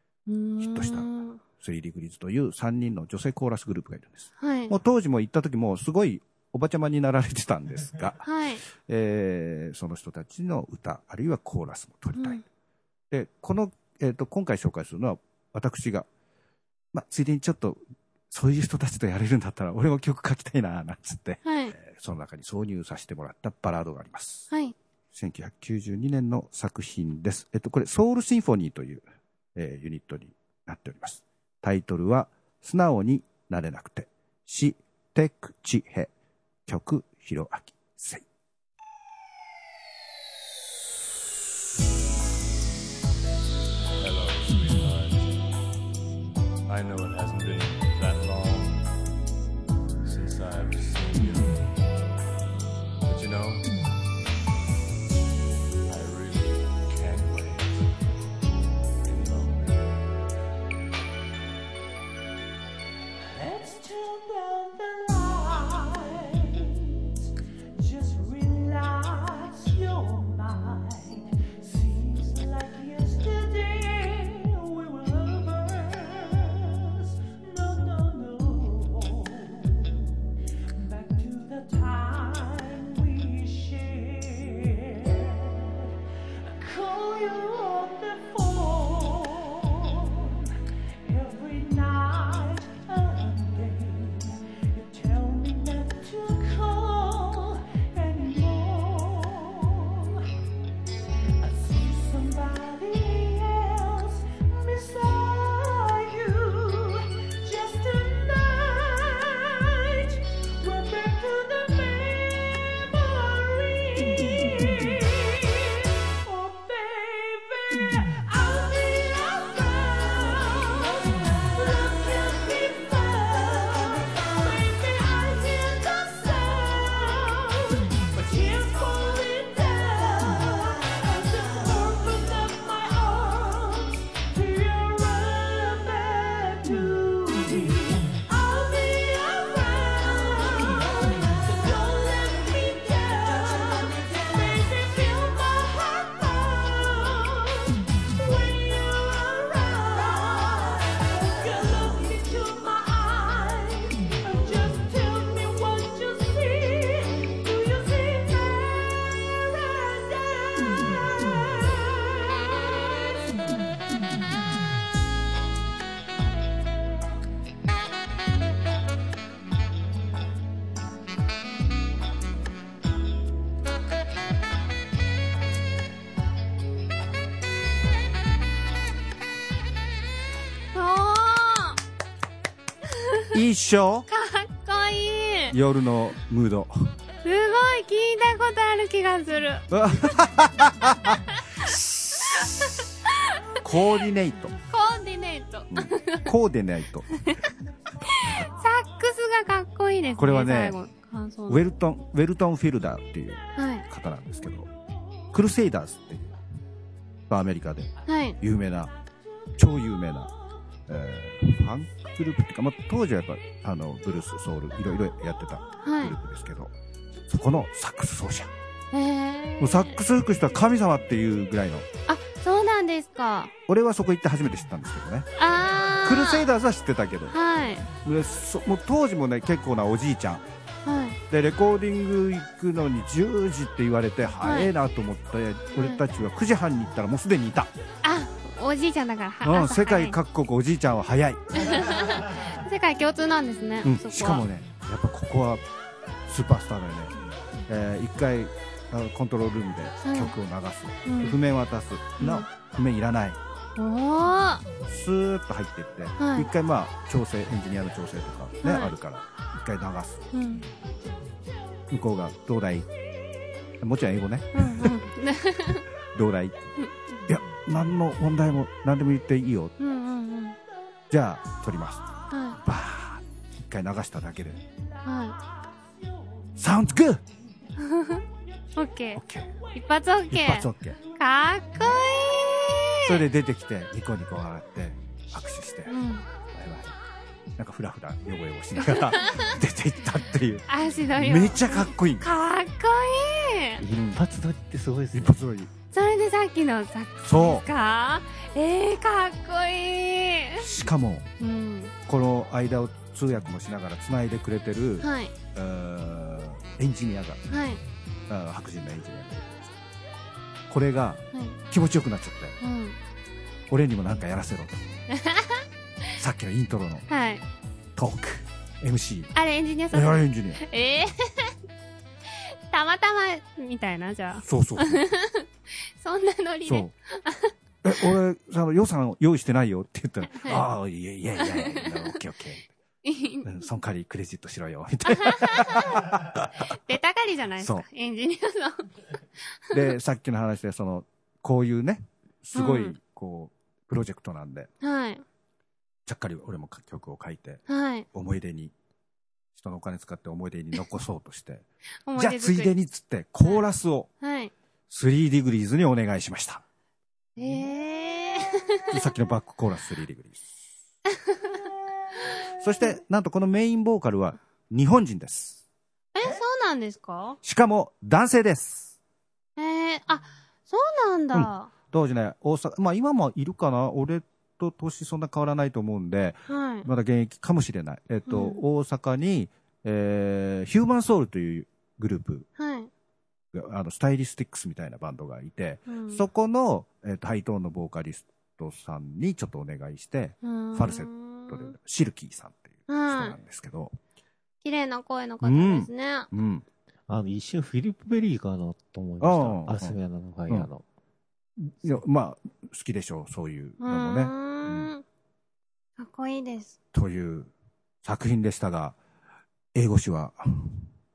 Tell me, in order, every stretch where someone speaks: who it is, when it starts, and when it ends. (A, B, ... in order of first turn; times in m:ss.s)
0:00.3-0:01.4 A
0:00.6-0:01.1 B
0:01.6-0:08.2 B
0:04.4-0:04.7 A
0:08.2-0:08.6 A
0:08.8-0:12.4 B
0:12.2-0:12.4 A
0:13.1-0:16.1 B
0:16.9-0:17.8 B
0:18.3-0:24.5 B
0:21.4-0:21.7 A
0:25.1-0:29.0 B
0:29.5-0:36.1 B
0:36.7-0:38.2 B
0:44.0-0:45.4 C
0:46.7-0:48.9 C
0:50.0-0:51.6 C
0:53.0-0:53.7 C
0:55.9-0:57.9 C
0:59.0-1:00.0 C
1:03.2-1:20.2 D
1:20.8-1:25.9 D
1:26.4-1:40.2 D
1:41.4-2:43.4 D
3:00.7-3:01.8 A
3:03.3-3:04.0 B
3:04.1-3:05.5 A
3:05.5-3:06.9 B
3:07.2-3:09.6 A
3:09.7-3:12.7 B
3:13.6-3:14.5 B
3:14.7-3:16.3 A
3:15.7-3:17.1 B
3:18.1-3:21.6 A
3:20.2-3:20.8 B
3:21.5-3:24.7 B
3:23.6-3:23.8 A
3:25.3-3:26.3 B
3:27.3-3:28.9 B
3:28.1-3:28.4 A
3:29.6-3:30.3 B
3:30.9-3:36.7 B
3:35.8-3:36.1 A
3:37.3-3:38.5 B
3:38.9-3:40.0 A
3:39.6-3:41.8 B
3:42.1-3:43.5 A
3:43.7-3:45.3 B
3:45.4-3:46.4 A
3:46.0-3:47.3 B
3:47.3-3:47.9 A
3:48.0-3:50.4 B
3:50.8-3:51.2 A
3:51.3-3:57.7 B
3:54.4-3:54.7 A
3:55.7-3:56.0 A
3:58.0-4:00.2 A
3:59.4-4:02.0 B
4:01.6-4:04.4 A
4:03.8-4:05.6 B
4:06.3-4:07.1 B
4:07.7-4:13.4 B
4:10.0-4:10.3 A
4:11.0-4:11.4 A
4:12.2-4:12.5 A
4:13.8-4:14.6 A
4:14.9-4:20.2 B
4:16.2-4:16.5 A
4:18.6-4:18.9 A
4:20.3-4:20.6 A
4:21.9-4:22.9 B
4:23.8-4:24.9 B
4:24.5-4:25.8 A
4:26.1-4:26.6 B
4:26.8-4:27.2 A
4:27.3-4:29.7 B
4:29.8-4:30.6 A
4:31.1-4:32.0 B
4:32.3-4:32.6 A
4:32.6-4:34.6 B
4:35.0-4:35.4 A
4:36.6-4:37.2 B
4:37.8-4:38.2 A
4:38.8-4:39.2 A
4:39.1-4:39.5 B
4:39.7-4:43.2 A
4:40.3-4:41.0 B
4:43.0-4:46.0 B
4:45.9-4:46.2 A
4:46.5-4:47.0 B
4:47.6-4:50.7 B
4:49.0-4:49.5 A
4:50.7-4:53.8 A
4:51.2-4:52.2 B
4:53.8-4:55.4 E
4:53.9-4:54.2 B
4:55.1-4:55.7 B
4:55.9-5:00.6 A
4:57.2-4:57.6 B
5:00.6-5:01.3 B
5:01.4-5:01.9 A
5:02.1-5:07.5 B
5:05.0-5:05.3 A
5:07.5-5:07.8 A
5:08.3-5:09.7 B
5:10.7-5:12.6 B
5:12.6-5:13.0 A
5:13.7-5:14.8 B
5:15.1-5:15.6 A
5:16.2-5:17.1 B
5:17.1-5:17.4 A
5:18.0-5:19.3 B
5:19.3-5:21.5 A
5:19.9-5:20.6 B
5:22.7-5:25.5 A
5:24.4-5:25.0 B
5:26.0-5:27.5 A
5:26.6-5:26.9 B
5:27.8-5:32.7 B
5:30.3-5:30.6 A
5:31.4-5:31.9 A
5:33.0-5:33.5 A
5:33.4-5:36.6 B
5:35.2-5:36.0 A
5:36.7-5:38.8 A
5:37.6-5:37.8 B
5:39.7-5:44.7 B
5:42.5-5:42.9 A
5:44.8-5:45.2 A
5:46.0-5:48.7 B
5:47.7-5:48.0 A
5:49.5-5:54.1 B
5:52.1-5:52.7 A
5:54.2-5:54.5 A
5:54.9-5:56.6 B
5:57.4-5:58.9 A
5:58.9-6:00.4 B
6:02.6-6:05.6 B
6:06.1-6:07.4 A
6:07.4-6:08.9 B
6:09.6-6:11.7 A
6:11.3-6:22.5 B
6:16.5-6:16.8 A
6:18.3-6:18.6 A
6:22.6-6:22.9 A
6:23.5-6:33.9 B
6:25.9-6:26.2 A
6:30.4-6:31.7 A
6:32.9-6:33.4 A
6:34.6-6:36.3 A
6:35.4-6:36.6 B
6:37.1-6:40.8 E
6:39.2-6:40.7 B
6:41.6-6:44.9 B
6:43.8-6:45.0 A
6:46.0-6:46.7 A
6:46.9-6:47.5 B
6:48.0-6:49.0 B
6:49.7-6:50.8 B